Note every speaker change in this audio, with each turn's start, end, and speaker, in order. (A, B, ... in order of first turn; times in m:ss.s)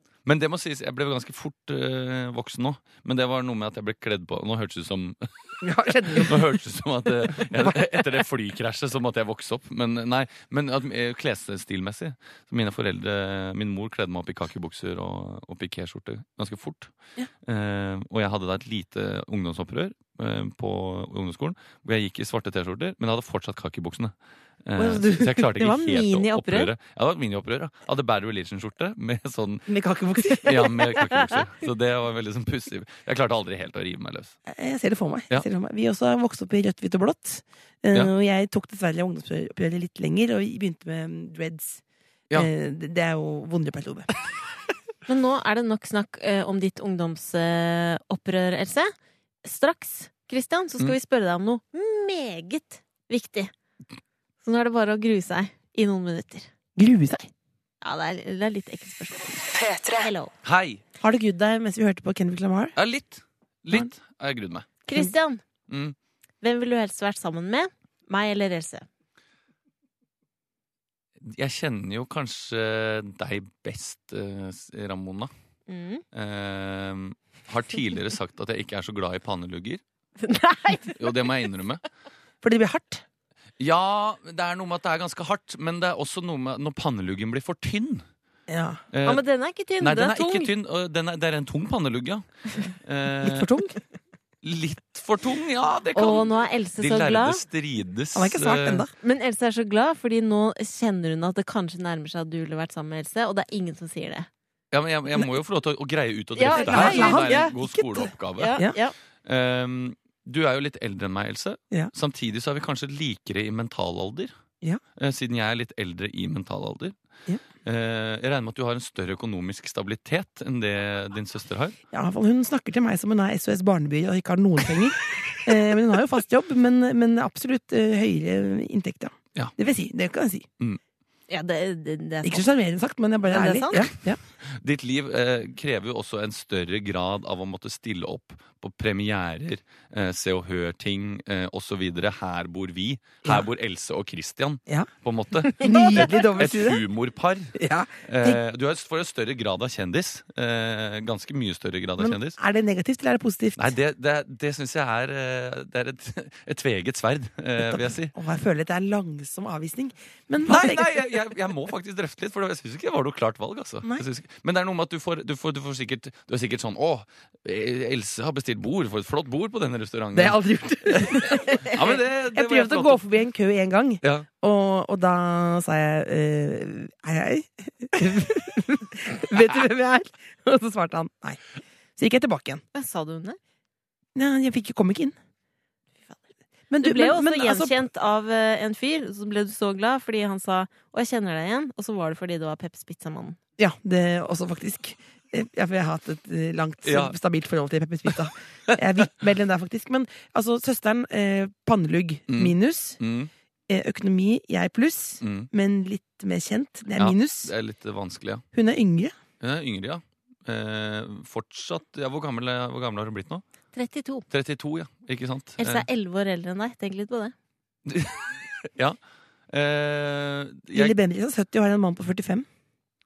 0:00.2-0:05.5 A
0:05.6-0:06.5 B
0:06.1-0:29.7 A
0:07.5-0:07.8 B
0:24.8-0:25.6 B
0:25.6-0:26.7 C
0:29.7-0:31.1 B
0:30.4-0:34.3 A
0:34.4-0:44.1 B
0:45.1-0:48.9 C
0:49.4-0:53.5 C
0:54.4-0:56.5 C
0:56.8-0:57.3 B
0:57.8-1:00.3 C
1:00.4-1:00.8 A
1:01.0-1:02.7 B
1:02.8-1:04.7 A
1:04.8-1:05.4 C
1:05.7-1:05.9 A
1:06.4-1:08.8 C
1:11.2-1:15.3 A
1:15.7-1:16.0 C
1:16.1-1:19.8 A
1:20.2-1:21.1 C
1:21.0-1:21.8 A
1:22.4-1:23.0 B
1:23.6-1:28.0 A
1:28.5-1:28.8 B
1:28.9-1:29.2 A
1:29.0-1:30.5 C
1:29.8-1:33.5 A
1:33.2-1:33.8 B
1:34.4-1:38.9 A
1:35.9-1:37.4 C
1:38.1-1:38.9 B
1:39.0-1:44.3 C
1:44.7-1:48.6 A
1:46.3-1:47.5 C
1:46.5-1:48.7 B
1:48.4-1:48.9 C
1:49.2-1:54.3 A
1:55.0-1:57.0 A
1:57.6-2:01.8 A
2:01.9-2:10.5 B
2:11.3-2:12.4 C
2:12.2-2:14.2 B
2:13.2-2:13.8 C
2:14.4-2:32.4 A
2:25.6-2:26.8 B
2:25.6-2:26.2 C
2:27.5-2:28.4 B
2:32.0-2:33.7 B
2:33.6-2:38.1 A
2:37.6-2:40.9 B
2:40.4-2:53.0 A
2:50.1-3:01.4 B
3:02.0-3:02.6 B
3:02.7-3:03.4 C
3:04.1-3:05.1 B
3:06.7-3:07.8 B
3:06.8-3:13.4 C
3:13.6-3:23.0 B
3:16.8-3:17.1 A
3:22.3-3:23.3 A
3:23.7-3:27.5 B
3:25.2-3:25.5 A
3:27.0-3:28.4 A
3:28.5-3:29.2 B
3:29.4-3:33.4 A
3:33.7-3:34.2 C
3:34.3-3:35.9 A
3:35.6-3:37.3 C
3:37.8-3:39.0 A
3:39.5-3:41.0 A
3:40.7-3:42.4 B